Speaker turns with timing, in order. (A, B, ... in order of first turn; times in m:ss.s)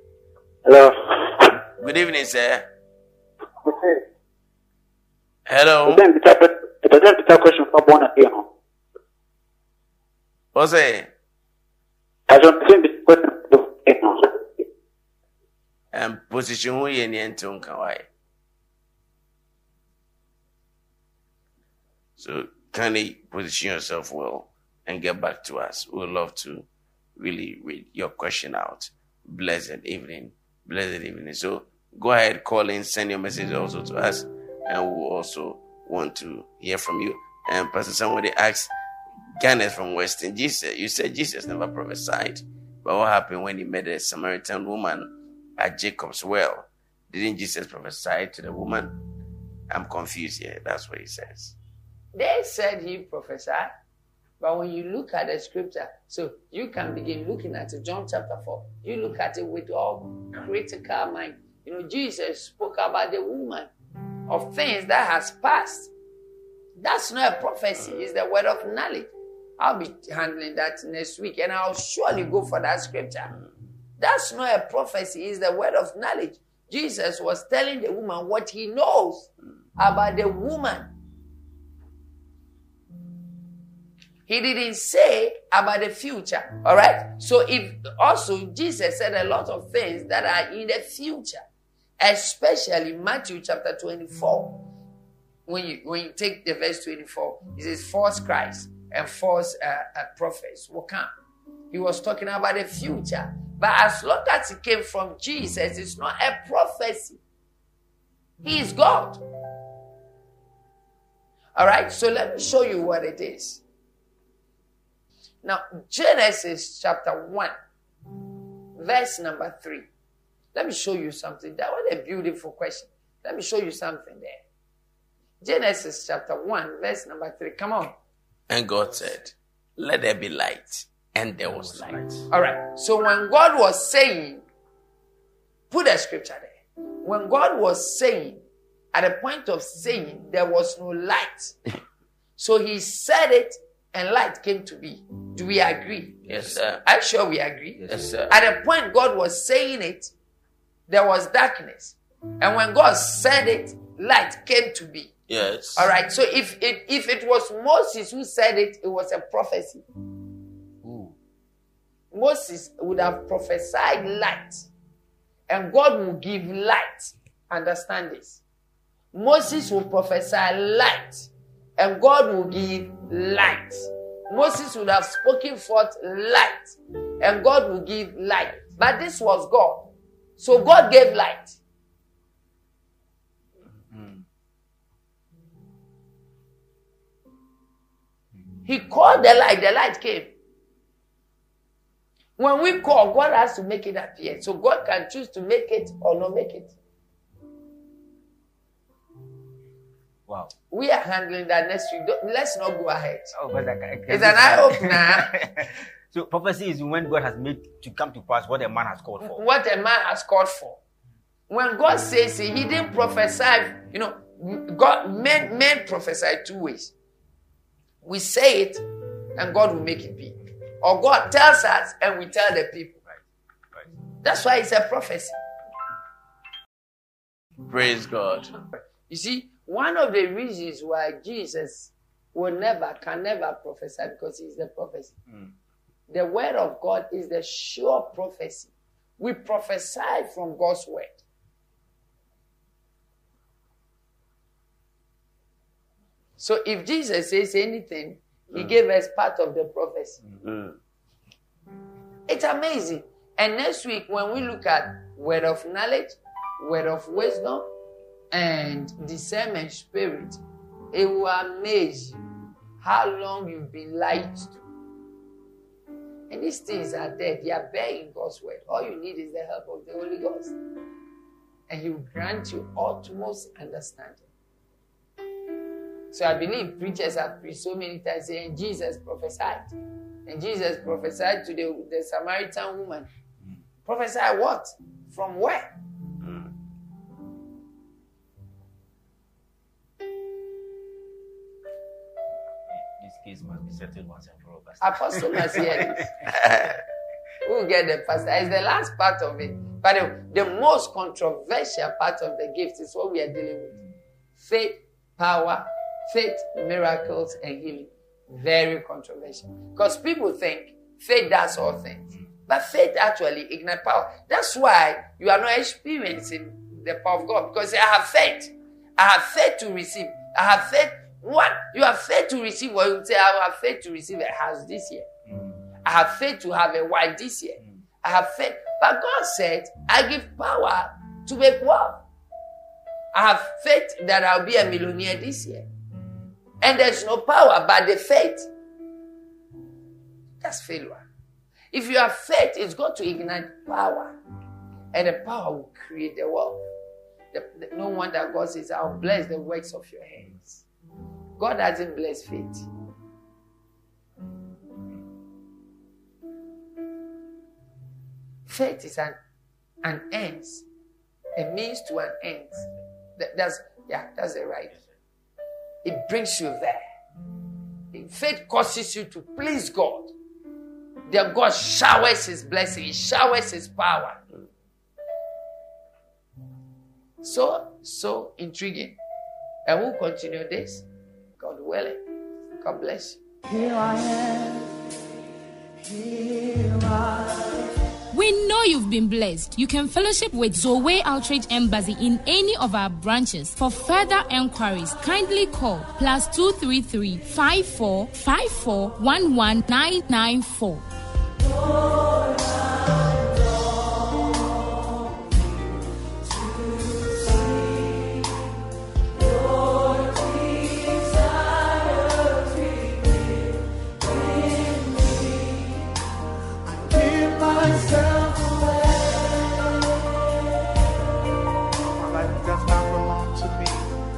0:00.6-0:01.5 A
0:01.8-0:02.7 B
0:03.6-0:04.0 A
0:05.5-0:06.0 B
0:05.8-0:08.5 A
0:10.5-0:11.1 B
0:12.3-0:14.3 A
0:15.9-0:18.0 B
0:22.2-0:26.6 B
0:27.2-0:38.7 B
0:39.4-0:49.0 B
0:49.7-0:51.5 B
0:52.1-0:53.7 C
0:54.4-1:03.7 C
1:04.3-1:05.9 C
1:06.8-1:13.3 C
1:14.0-1:20.9 C
1:24.3-1:31.4 C
1:32.0-1:34.7 C
1:35.5-1:41.1 C
1:41.7-1:47.2 C
1:48.4-1:49.2 C
1:51.6-1:53.6 C
1:55.4-1:57.5 C
1:58.8-1:59.9 C
2:00.5-2:04.4 C
2:05.4-2:08.0 C
2:08.5-2:12.0 B
2:11.4-2:12.2 D
2:12.3-2:14.4 C
2:15.7-2:21.6 C
2:22.4-2:26.2 C
2:26.3-2:26.8 B
2:26.8-2:30.1 C
2:27.9-2:28.3 B
2:30.9-2:35.1 C
2:35.3-2:35.9 B
2:35.8-2:39.8 C
2:40.8-2:41.1 D
2:42.1-2:44.6 C
2:45.5-2:48.4 C
2:49.1-3:01.6 C
3:03.9-3:04.2 D
3:08.6-3:10.3 C
3:12.4-3:16.7 C
3:20.3-3:20.5 D
3:20.7-3:23.3 C
3:23.3-3:29.4 D
3:24.1-3:25.4 C
3:29.2-3:30.8 C
3:31.5-3:36.9 C
3:38.0-3:38.8 C
3:39.4-3:43.0 C
3:43.1-3:43.9 D
3:44.2-3:45.4 C
3:47.7-3:48.5 B
3:49.1-3:55.1 C
3:56.1-4:01.2 C
4:06.4-4:10.2 C
4:10.4-4:10.8 B
4:12.3-4:17.7 C
4:18.3-4:20.4 C
4:20.9-4:22.2 C
4:22.8-4:24.6 C
4:26.3-4:30.5 C
4:31.7-4:34.2 C
4:36.1-4:39.7 C
4:40.2-4:43.1 C
4:43.8-4:45.7 C
4:52.7-4:56.1 D
4:54.8-4:56.1 C
4:56.3-4:56.8 B
4:57.4-5:03.8 C
5:04.4-5:25.1 C
5:25.3-5:25.6 D
5:25.8-5:32.0 C
5:33.1-5:35.7 C
5:36.6-5:38.5 C
5:40.4-5:41.0 C
5:41.7-5:44.1 C
5:44.9-5:46.6 C
5:47.3-5:50.6 C
5:51.4-5:52.6 C
5:58.5-5:59.2 C
5:59.8-6:00.6 C
6:01.4-6:04.7 C
6:05.8-6:06.8 C
6:07.9-6:10.1 C
6:11.1-6:14.2 C
6:17.2-6:19.0 C
6:19.6-6:20.8 C
6:21.4-6:22.0 C
6:22.6-6:23.2 C
6:23.5-6:24.7 E
6:25.8-6:27.6 E
6:28.1-6:40.8 F
6:49.6-6:51.0 E
6:54.4-6:55.2 E
6:56.6-6:59.2 E
7:01.9-7:03.9 E